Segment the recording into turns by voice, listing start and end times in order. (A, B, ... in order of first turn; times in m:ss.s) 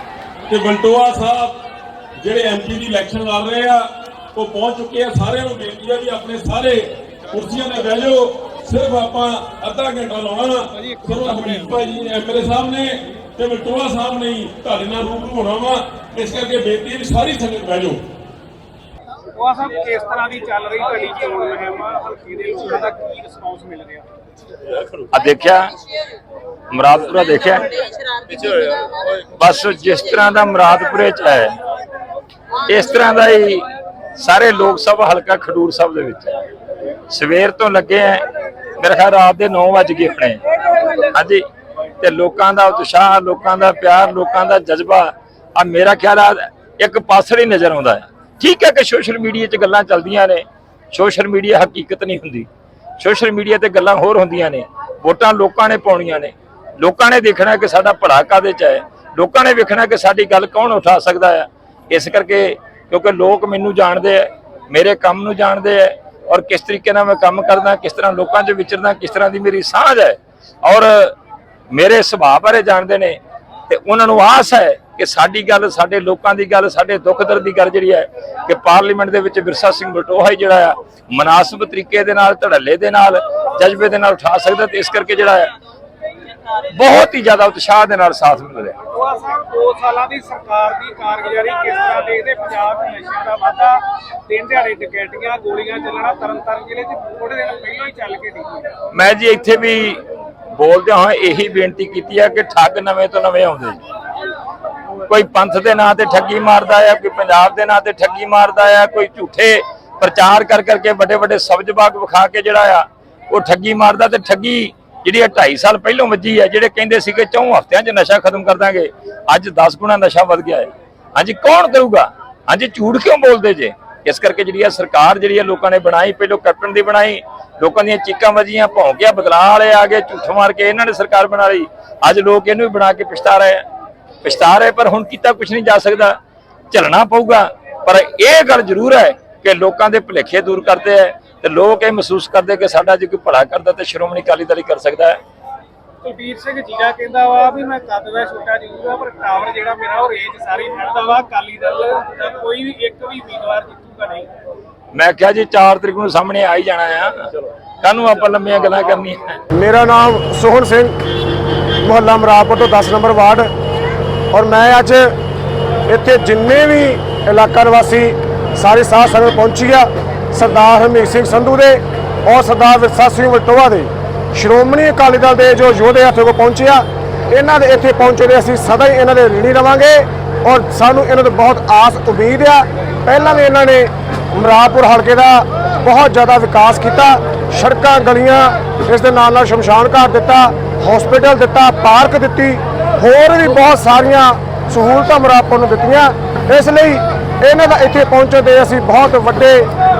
0:00.5-0:01.6 A
0:02.2-0:18.0 A
0:19.3-0:24.1 B
0:25.1-0:25.8 C
0:26.7-0:27.9 C
0:29.3-0:31.5 C
0:32.6-0:36.3 C
0:37.1-0:38.2 C
0:38.8-0:40.4 C
0:41.0-0:41.4 C
0:42.0-0:52.5 C
0:53.0-1:11.1 C
1:11.7-1:25.5 C
1:26.7-1:28.7 C
1:28.9-1:38.7 B
1:38.9-1:40.0 C
1:40.5-1:43.8 C
1:45.1-2:13.6 C
2:14.2-2:16.2 C
2:16.7-2:25.2 C
2:26.0-2:34.3 B
2:34.9-2:39.4 C
2:39.5-2:40.9 D
2:41.8-2:43.5 D
2:44.3-2:45.1 D
2:45.9-3:19.7 D